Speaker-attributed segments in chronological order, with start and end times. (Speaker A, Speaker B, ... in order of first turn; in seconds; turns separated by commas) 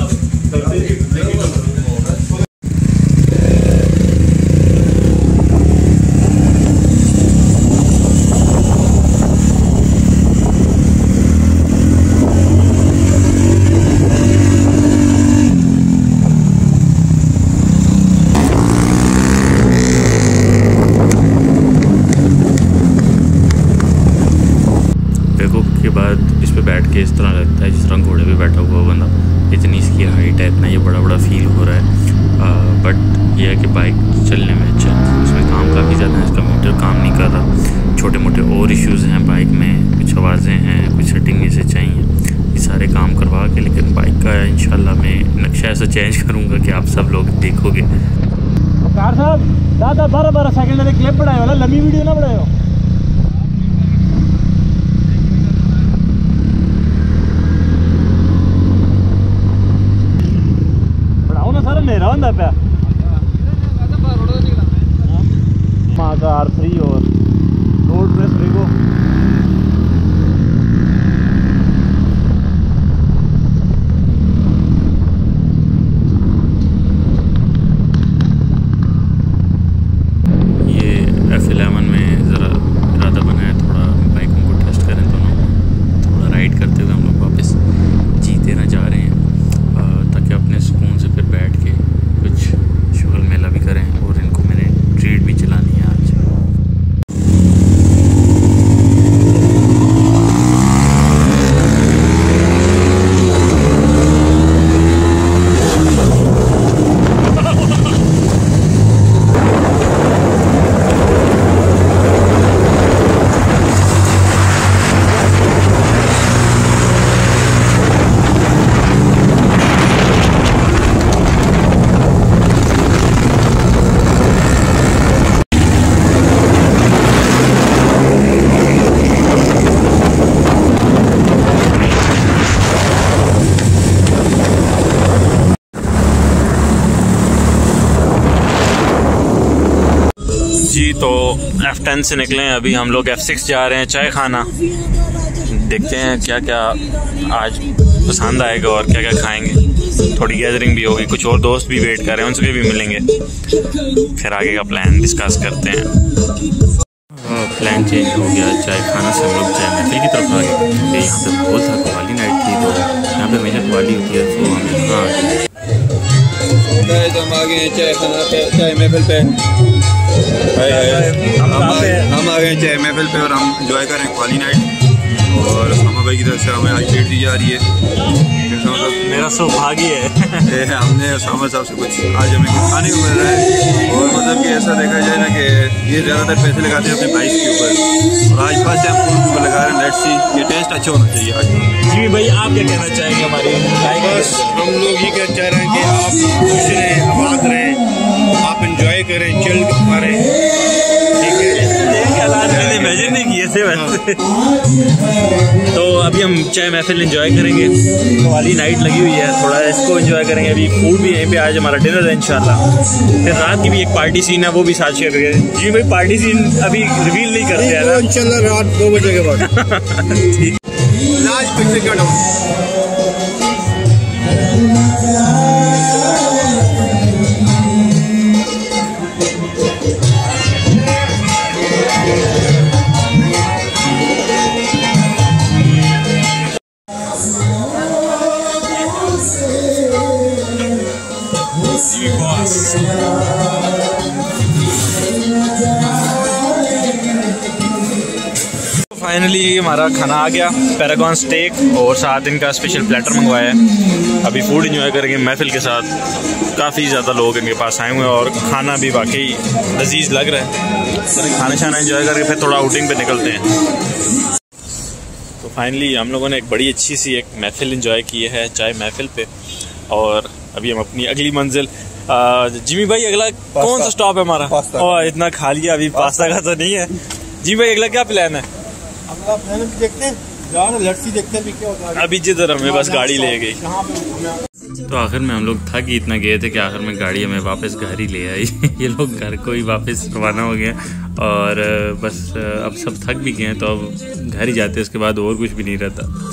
Speaker A: 25.3-47.9, Speaker B: 48.8-52.5, Speaker B: 61.3-62.6, Speaker B: 65.9-67.1, Speaker B: 67.8-68.7, Speaker A: 80.6-87.6, Speaker A: 88.2-89.2, Speaker A: 89.7-96.2, Speaker A: 140.6-144.5, Speaker A: 145.5-153.1, Speaker A: 154.2-155.9, Speaker A: 157.2-165.4, Speaker C: 166.7-169.4, Speaker C: 170.5-174.7, Speaker A: 170.6-172.1, Speaker C: 175.3-177.6, Speaker C: 178.5-179.0, Speaker A: 178.9-180.5, Speaker C: 180.5-191.7, Speaker A: 191.9-194.4, Speaker B: 192.4-192.7, Speaker B: 193.9-194.6, Speaker D: 194.3-197.6, Speaker B: 196.5-197.8, Speaker B: 198.4-199.8, Speaker D: 199.4-199.9, Speaker A: 201.3-204.2, Speaker B: 201.5-203.2, Speaker A: 205.7-212.6, Speaker A: 213.2-218.1, Speaker D: 217.7-219.2, Speaker B: 217.8-219.4, Speaker A: 219.1-220.5, Speaker D: 221.2-222.2, Speaker B: 221.2-221.8, Speaker A: 241.9-242.7, Speaker A: 248.9-253.6, Speaker A: 254.2-255.9, Speaker A: 256.5-260.5, Speaker A: 261.2-263.5, Speaker A: 265.4-269.3, Speaker A: 269.9-278.4, Speaker C: 273.6-275.1, Speaker C: 275.9-276.3, Speaker D: 279.2-281.8, Speaker B: 279.6-280.1, Speaker B: 280.6-281.8, Speaker A: 281.9-283.7, Speaker D: 283.0-284.2, Speaker A: 284.9-296.1